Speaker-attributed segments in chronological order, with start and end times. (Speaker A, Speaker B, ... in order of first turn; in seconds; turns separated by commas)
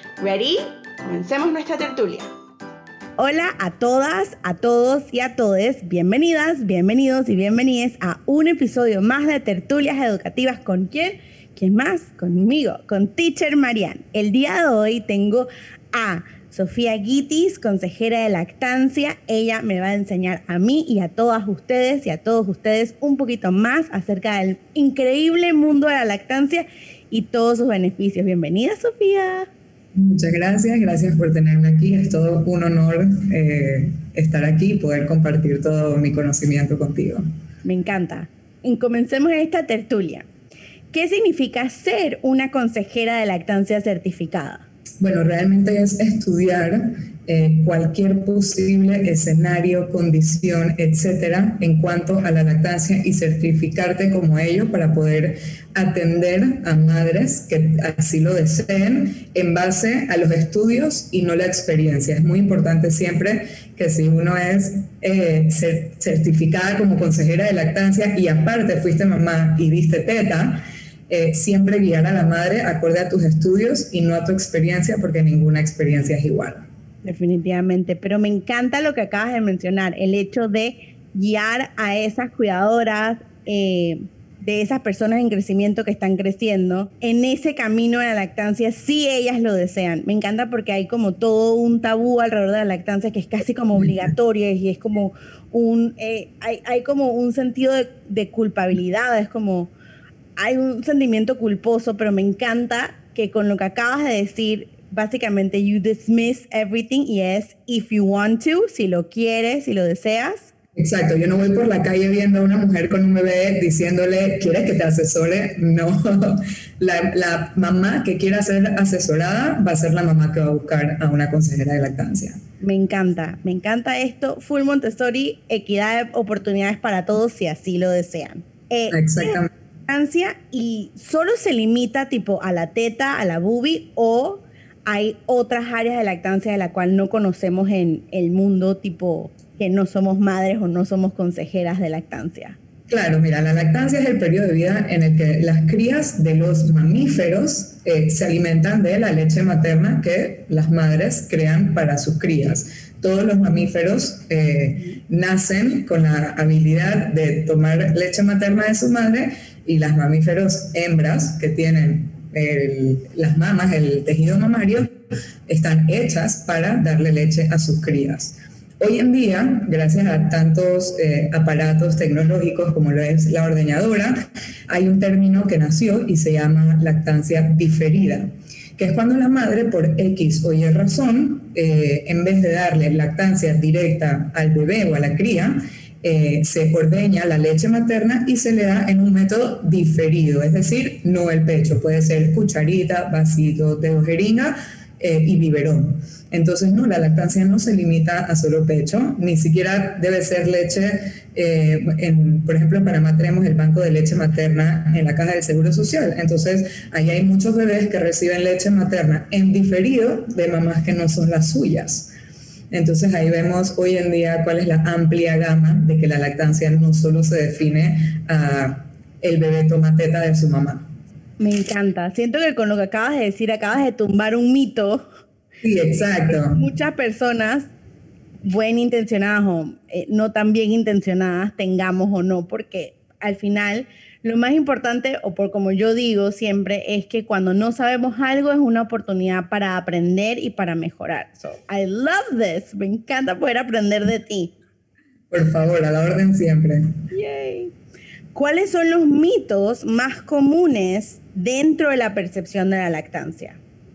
Speaker A: 0.2-2.3, Speaker A: 3.2-29.5, Speaker B: 29.9-37.2, Speaker A: 37.6-40.3, Speaker A: 40.9-44.7, Speaker B: 45.0-76.7, Speaker A: 77.0-99.7, Speaker B: 93.8-94.1, Speaker A: 100.4-110.5, Speaker B: 110.8-122.4, Speaker A: 122.6-142.6, Speaker B: 128.9-129.5, Speaker B: 142.9-164.9, Speaker B: 165.5-174.2, Speaker B: 174.7-212.1, Speaker B: 212.7-220.9, Speaker A: 221.4-225.1, Speaker B: 225.6-226.6, Speaker A: 226.4-227.7, Speaker A: 228.4-244.5, Speaker B: 245.3-246.9, Speaker A: 247.1-247.7, Speaker A: 248.3-253.6